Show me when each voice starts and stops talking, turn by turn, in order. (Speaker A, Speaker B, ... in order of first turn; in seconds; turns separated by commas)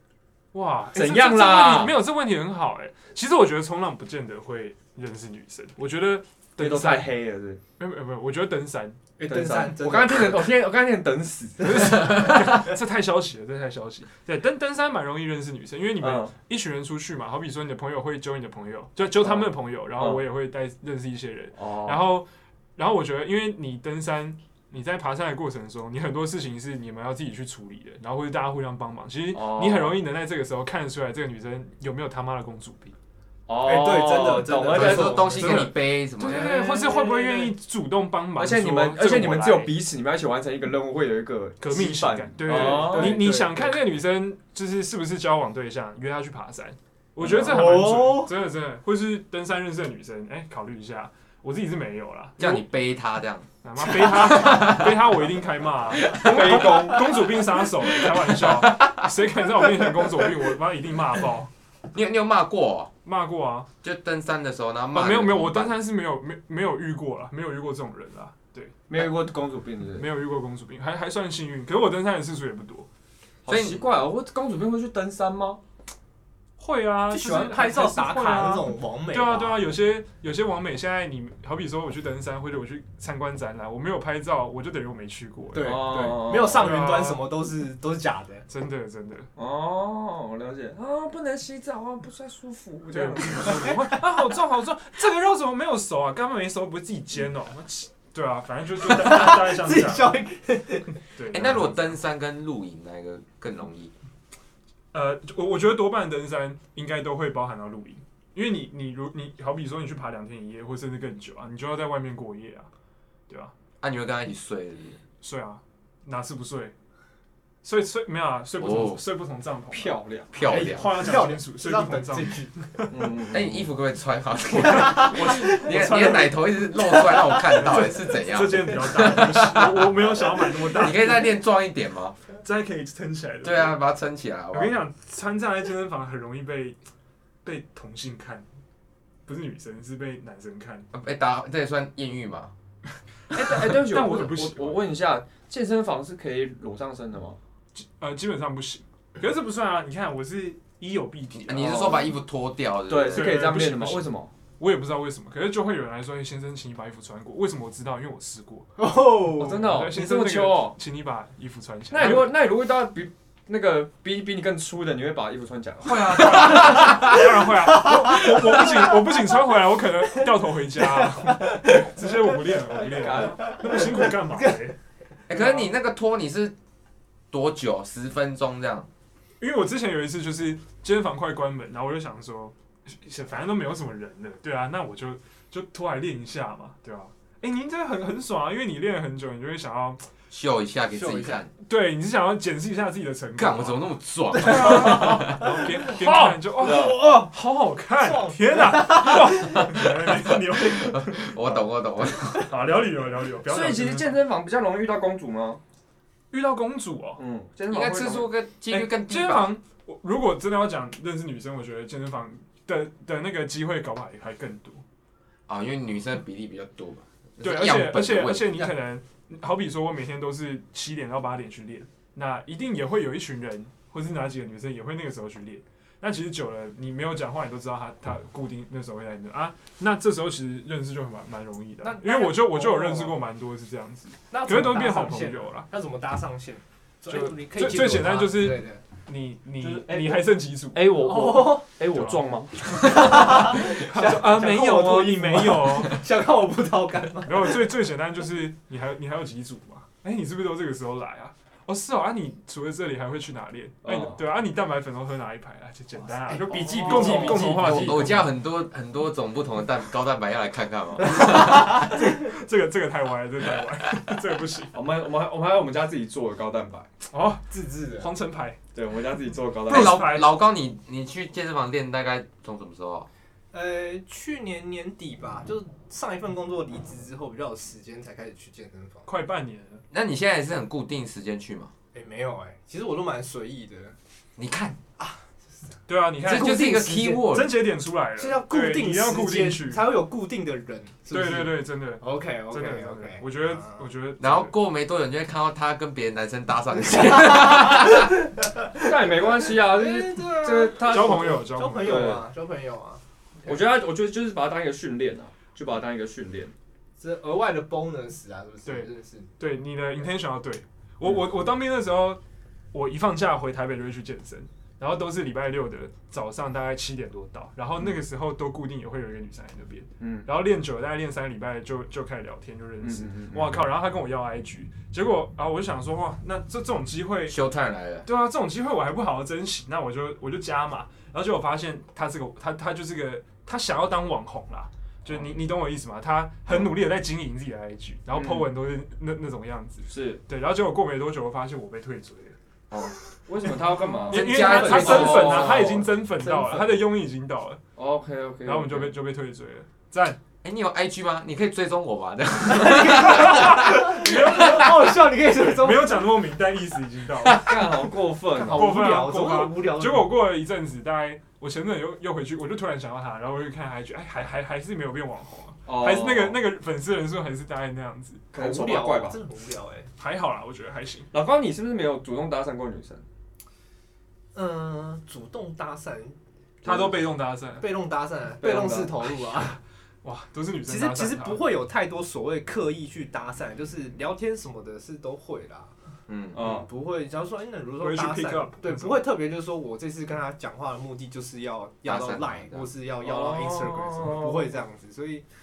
Speaker A: 0.5-7.1, Speaker B: 0.9-2.0, Speaker B: 6.6-7.6, Speaker A: 7.8-9.0, Speaker C: 9.2-10.5, Speaker B: 9.3-12.2, Speaker A: 11.6-33.0, Speaker B: 16.0-16.3, Speaker B: 19.2-20.2, Speaker B: 21.6-22.1, Speaker B: 29.3-30.0, Speaker B: 33.5-35.6, Speaker C: 33.6-35.7, Speaker D: 34.6-36.6, Speaker A: 34.8-39.7, Speaker B: 36.2-37.5, Speaker C: 36.5-37.2, Speaker B: 38.4-43.3, Speaker A: 41.6-52.6, Speaker C: 42.5-43.8, Speaker B: 47.2-48.0, Speaker C: 47.3-48.3, Speaker D: 52.4-55.2, Speaker A: 53.6-61.5, Speaker D: 56.0-57.0, Speaker B: 56.2-57.2, Speaker D: 58.0-59.1, Speaker D: 61.9-62.9, Speaker A: 63.0-63.7, Speaker D: 63.8-65.8, Speaker A: 64.9-68.8, Speaker B: 68.9-70.1, Speaker A: 70.0-72.9, Speaker B: 73.4-75.6, Speaker D: 73.5-73.8, Speaker A: 76.6-87.2, Speaker C: 77.1-79.7, Speaker C: 85.5-88.5, Speaker B: 85.6-86.7, Speaker A: 88.5-89.3, Speaker B: 89.4-93.8, Speaker A: 92.9-100.2, Speaker C: 93.1-94.0, Speaker C: 98.8-101.0, Speaker A: 101.1-102.0, Speaker D: 101.3-103.9, Speaker A: 104.9-112.7, Speaker A: 113.3-113.5, Speaker D: 113.8-115.0, Speaker A: 115.2-116.7, Speaker A: 117.6-123.2, Speaker D: 118.6-119.0, Speaker B: 119.7-120.3, Speaker D: 120.3-121.0, Speaker C: 120.4-122.5, Speaker B: 122.9-123.7, Speaker D: 123.3-132.2, Speaker A: 124.6-126.5, Speaker C: 124.6-126.1, Speaker C: 127.1-127.8, Speaker A: 127.3-131.3, Speaker A: 132.4-133.8, Speaker D: 133.4-134.8, Speaker A: 134.5-136.8, Speaker A: 137.4-138.5, Speaker A: 139.3-140.9, Speaker D: 140.9-142.5, Speaker A: 143.3-144.8, Speaker B: 143.3-147.4, Speaker A: 147.8-152.0, Speaker D: 151.3-153.4, Speaker B: 151.6-152.1, Speaker B: 152.9-154.3, Speaker A: 153.0-158.7, Speaker C: 158.8-159.8, Speaker B: 159.3-160.8, Speaker A: 159.5-162.3, Speaker B: 161.9-166.9, Speaker A: 165.8-174.8, Speaker C: 166.3-169.0, Speaker D: 166.8-167.2, Speaker C: 170.8-174.6, Speaker B: 172.8-173.6, Speaker A: 175.3-175.7, Speaker D: 175.3-176.6, Speaker D: 177.3-178.9, Speaker A: 179.4-190.1, Speaker D: 190.3-191.5, Speaker C: 190.9-191.5, Speaker A: 191.6-201.3, Speaker D: 193.4-195.5, Speaker C: 194.3-195.6, Speaker B: 195.4-197.1, Speaker C: 196.6-197.3, Speaker C: 198.0-200.9, Speaker D: 200.8-202.5, Speaker A: 202.3-204.2, Speaker B: 203.4-205.6, Speaker A: 206.3-207.2, Speaker B: 207.2-208.3, Speaker D: 207.7-209.5, Speaker A: 208.7-214.8, Speaker D: 215.5-218.7, Speaker A: 217.4-235.7, Speaker C: 231.8-233.2, Speaker C: 234.3-238.8, Speaker A: 237.1-240.9, Speaker B: 239.6-243.2, Speaker C: 241.0-241.7, Speaker A: 241.9-246.0, Speaker C: 242.8-247.6, Speaker A: 247.2-258.3, Speaker B: 253.8-254.2, Speaker C: 256.0-258.1, Speaker B: 256.5-257.6, Speaker D: 257.4-262.0, Speaker C: 261.2-262.0, Speaker A: 261.2-264.8, Speaker B: 264.7-266.9, Speaker A: 267.1-268.6, Speaker C: 267.5-268.1, Speaker B: 268.8-270.0, Speaker A: 269.6-270.3, Speaker D: 269.7-273.1, Speaker C: 273.5-279.1, Speaker A: 279.1-279.8, Speaker D: 279.9-281.7, Speaker C: 281.9-284.0, Speaker D: 284.4-284.8, Speaker C: 285.0-285.3, Speaker A: 285.9-289.9, Speaker D: 286.2-287.6, Speaker C: 286.3-287.2, Speaker C: 288.2-293.9, Speaker A: 291.1-294.5, Speaker D: 294.2-298.1, Speaker C: 297.1-303.6, Speaker B: 298.8-302.2, Speaker A: 300.7-302.2, Speaker B: 303.4-306.5, Speaker C: 307.0-309.3, Speaker A: 308.7-312.2, Speaker A: 312.7-327.4, Speaker B: 320.0-320.3, Speaker B: 322.8-323.6, Speaker D: 327.3-328.1, Speaker A: 328.1-342.4, Speaker B: 338.1-338.5, Speaker B: 339.9-340.2, Speaker B: 343.3-345.7, Speaker A: 343.4-347.6, Speaker D: 344.1-345.8, Speaker C: 344.1-346.9, Speaker B: 347.8-348.9, Speaker A: 348.4-350.2, Speaker D: 350.4-354.7, Speaker C: 352.4-356.1, Speaker A: 353.1-357.6, Speaker B: 357.3-358.8, Speaker C: 358.4-360.1, Speaker A: 358.4-368.3, Speaker B: 365.7-366.4, Speaker B: 368.3-369.2, Speaker C: 368.3-369.9, Speaker A: 370.0-371.1, Speaker B: 371.1-373.0, Speaker C: 374.3-376.2, Speaker A: 376.6-377.8, Speaker B: 376.6-376.9, Speaker C: 377.6-379.6, Speaker B: 378.4-379.0, Speaker A: 380.0-381.5, Speaker C: 380.7-385.7, Speaker D: 386.1-386.4, Speaker B: 386.4-386.7, Speaker C: 386.4-395.2, Speaker A: 387.8-389.1, Speaker D: 391.8-392.7, Speaker B: 393.0-394.6